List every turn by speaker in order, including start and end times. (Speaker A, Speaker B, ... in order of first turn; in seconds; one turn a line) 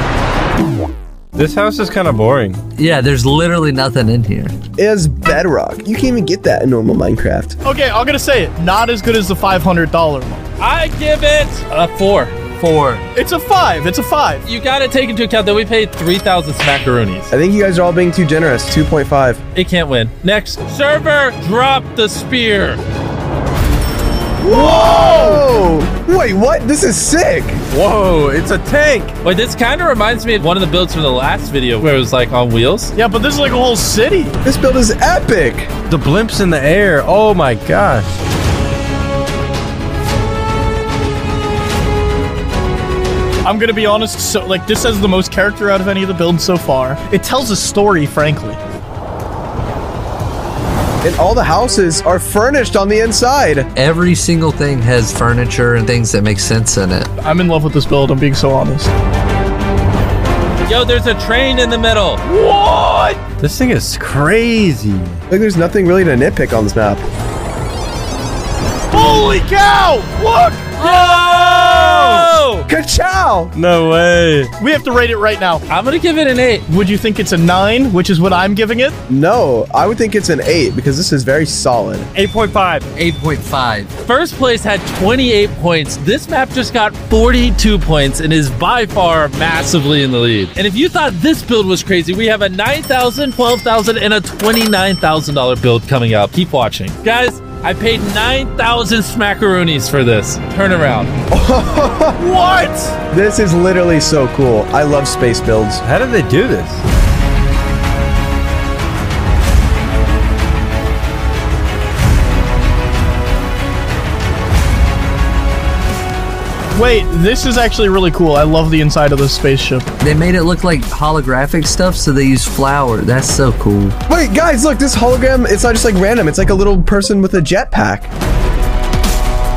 Speaker A: 1.3-2.6
Speaker B: 2.8-4.5
Speaker C: 4.8-7.5
Speaker D: 7.6-10.4
Speaker E: 10.6-12.4
Speaker B: 12.6-13.0
Speaker D: 13.1-14.4
Speaker E: 14.4-17.3
Speaker C: 17.3-19.4
Speaker E: 19.5-22.8
Speaker D: 24.4-25.4
Speaker C: 24.4-27.6
Speaker A: 27.7-29.1
Speaker E: 29.2-32.9
Speaker D: 33.0-34.4
Speaker C: 34.4-35.7
Speaker A: 35.9-38.1
Speaker D: 43.4-48.6
Speaker C: 51.0-53.7
Speaker B: 53.8-57.1
Speaker D: 57.2-58.9
Speaker E: 60.6-62.2
Speaker D: 62.3-63.2
Speaker A: 63.4-65.2
Speaker C: 65.3-67.0
Speaker D: 68.9-71.8
Speaker E: 70.8-72.7
Speaker C: 72.7-73.5
Speaker A: 73.5-74.5
Speaker D: 74.6-75.6
Speaker E: 75.7-76.6
Speaker D: 76.7-79.0
Speaker C: 79.1-82.1
Speaker A: 82.1-82.9
Speaker B: 83.0-83.9
Speaker E: 84.0-101.1
Speaker C: 101.3-102.2
Speaker D: 102.2-102.9
Speaker C: 103.1-105.8
Speaker A: 105.8-106.8
Speaker D: 116.7-119.8
Speaker B: 120.0-123.9
Speaker C: 124.1-128.1